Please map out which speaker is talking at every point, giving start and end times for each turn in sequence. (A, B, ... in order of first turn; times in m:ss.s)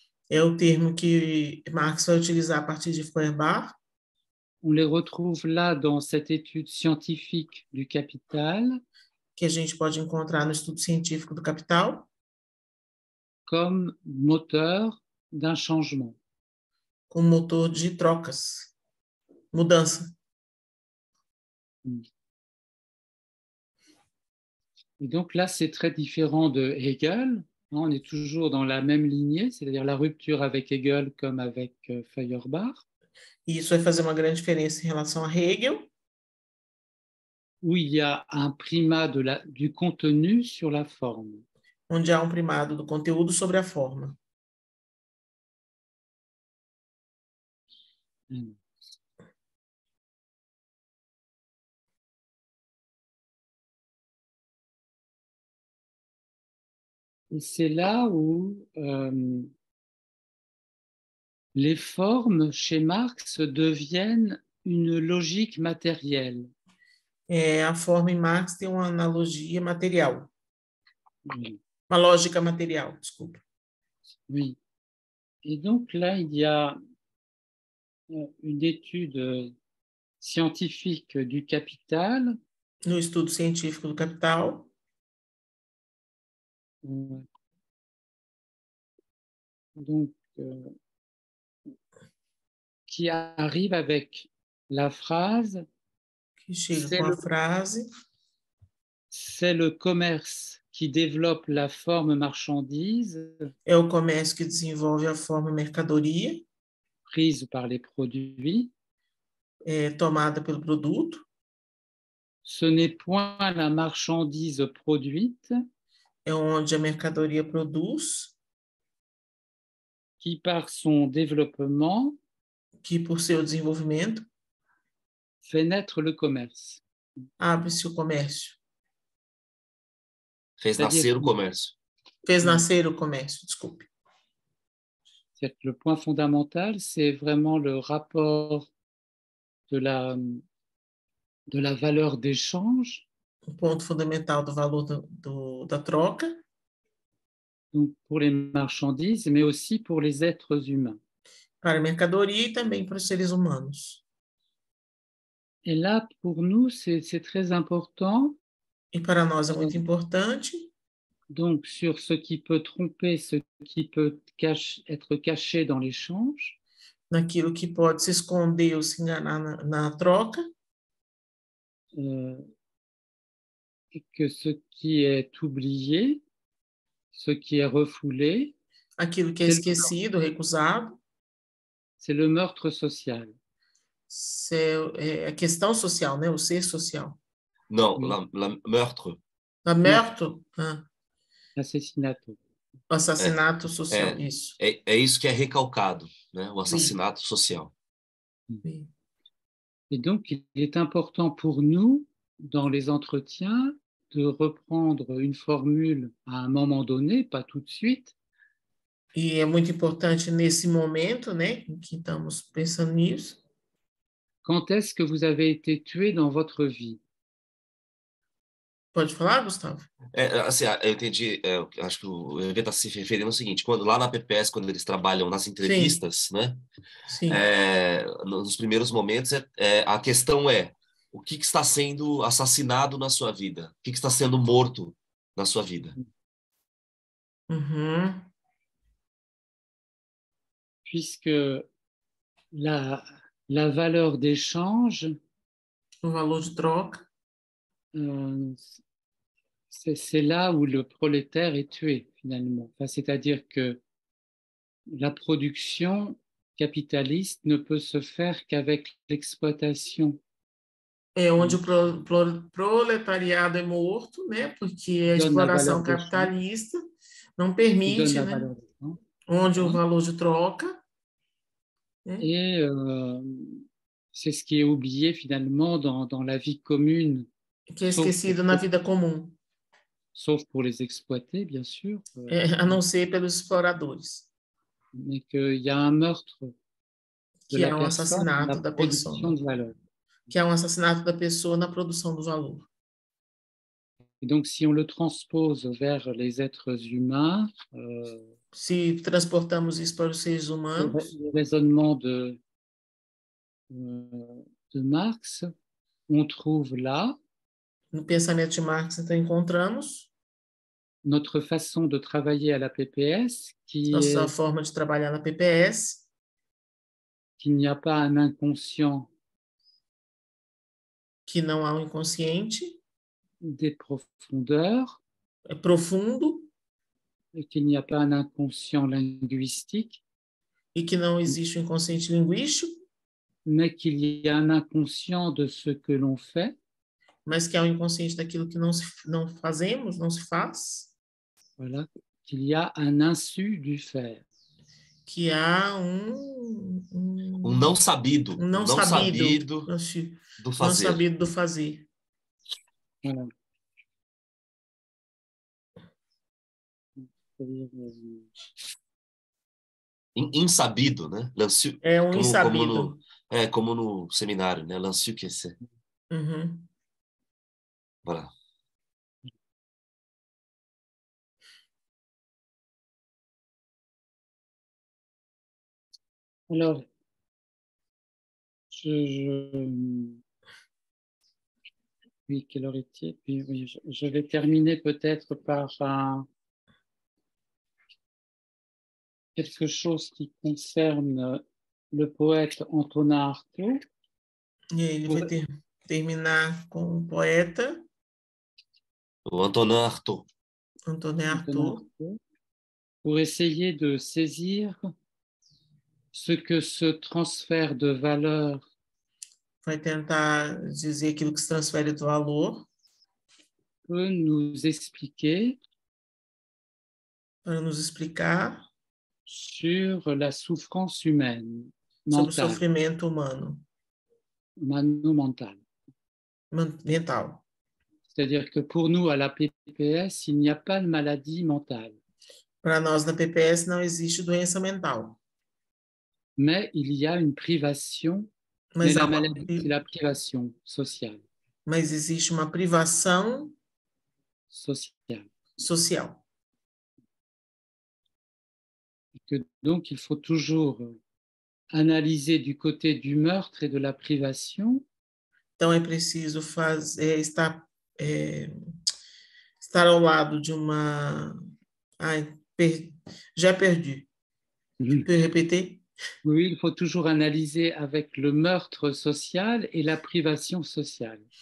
0:00.3-0:03.8 A
0:04.6-0:08.8 B
0:09.4-0:12.1 A
0:13.5-0:16.2 B
0:17.1-0:18.7 A
0:19.5-0:20.1 A
0:25.0-0:32.8 B
0:33.5-0:35.9 A
0:37.6-0:41.5 B
0:41.9-0:44.2 A
0:48.3-0:48.6 B
0:57.3-0:59.5 B
1:01.6-1:06.5 B
1:07.3-1:10.3 A
1:11.2-1:11.6 B
1:11.9-1:13.4 A
1:14.3-1:14.6 B
1:15.4-1:16.8 B
1:18.1-1:19.6 B
1:20.2-1:22.4 B
1:22.9-1:24.7 A
1:26.8-1:27.3 B
1:29.8-1:30.7 B
1:32.9-1:35.7 B
1:36.5-1:37.9 A
1:36.7-1:37.2 B
1:39.1-1:43.5 B
1:43.7-1:46.4 A
1:47.1-1:48.7 B
1:49.6-1:51.2 A
1:52.4-1:55.5 B
1:56.2-1:58.4 A
2:00.2-2:02.2 B
2:02.8-2:04.3 A
2:05.4-2:07.2 B
2:07.4-2:08.6 A
2:10.6-2:11.7 C
2:10.8-2:11.3 B
2:12.2-2:13.9 A
2:15.4-2:18.7 B
2:19.7-2:20.4 B
2:21.5-2:23.1 B
2:23.5-2:26.4 A
2:27.7-2:31.0 B
2:31.6-2:34.0 A
2:35.6-2:38.4 B
2:38.9-2:40.7 A
2:41.3-2:46.6 B
2:47.1-2:50.4 A
2:52.0-2:52.5 B
2:53.9-2:56.2 B
2:57.1-2:58.6 B
2:59.0-3:01.0 A
2:59.5-2:59.9 B
3:02.0-3:03.4 B
3:04.1-3:07.2 A
3:07.7-3:09.2 C
3:09.6-3:10.8 A
3:11.6-3:12.4 B
3:12.9-3:14.6 A
3:13.9-3:17.7 C
3:16.7-3:16.9 A
3:18.6-3:18.9 A
3:19.9-3:28.1 B
3:29.2-3:33.4 A
3:34.4-3:37.0 B
3:38.9-3:39.9 A
3:40.1-3:46.6 C
3:45.6-3:46.0 A
3:47.1-3:47.4 A
3:47.3-3:56.0 C
3:57.5-3:58.3 A
4:00.9-4:01.7 B
4:02.5-4:05.2 B
4:06.0-4:07.0 A
4:07.9-4:08.8 B
4:09.7-4:13.8 B
4:14.9-4:20.2 B
4:21.2-4:26.8 A
4:25.1-4:26.3 B
4:27.4-4:28.5 A
4:27.9-4:29.0 B
4:29.3-4:30.8 A
4:29.6-4:29.8 B
4:32.2-4:37.3 B
4:37.7-4:39.4 A
4:37.9-4:38.6 B
4:40.2-4:42.8 B
4:42.3-4:44.3 A
4:45.0-4:46.5 B
4:47.5-4:49.3 A
4:47.5-4:49.8 B
4:50.3-4:52.7 A
4:54.2-4:58.3 B
4:58.5-5:01.1 A
5:00.8-5:02.4 B
5:03.7-5:05.5 B
5:06.1-5:07.2 B
5:07.9-5:10.1 A
5:11.0-5:14.3 B
5:13.9-5:16.1 A
5:17.4-5:19.1 B
5:21.3-5:22.8 A
5:23.4-5:25.0 B
5:25.5-5:26.5 A
5:27.3-5:30.0 B
5:30.8-5:32.7 A
5:33.5-5:36.6 B
5:37.3-5:40.9 A
5:41.6-5:44.2 B
5:45.1-5:47.8 A
5:47.4-5:49.7 C
5:48.4-5:51.9 A
5:50.4-5:51.0 C
5:53.0-5:53.3 B
5:57.0-5:58.3 B
6:00.2-6:05.6 C
6:01.8-6:03.0 A
6:06.1-6:06.7 A
6:08.0-6:08.3 C
6:16.5-6:16.9 B
6:18.7-6:20.2 B
6:22.3-6:26.3 B
6:29.4-6:33.8 B
6:34.7-6:37.8 A
6:39.3-6:40.3 C
6:40.9-6:41.8 A
6:41.3-6:42.2 B
6:43.0-6:44.8 B
6:46.1-6:48.6 B
6:49.6-6:52.7 A
6:53.9-6:55.6 B
6:57.4-6:58.6 A
6:59.3-7:02.6 B
7:02.1-7:03.6 A
7:04.6-7:05.6 B
7:06.5-7:07.4 A
7:08.1-7:12.0 B
7:12.6-7:15.2 A
7:16.4-7:18.3 B
7:18.8-7:19.7 A
7:18.8-7:21.2 B
7:21.7-7:23.5 A
7:24.5-7:25.3 B
7:25.6-7:26.2 A
7:29.2-7:31.0 B
7:31.7-7:34.8 B
7:35.6-7:38.5 A
7:39.6-7:41.4 A
7:42.0-7:44.1 A
7:44.8-7:45.1 B
7:44.9-7:45.8 A
7:46.2-7:51.3 B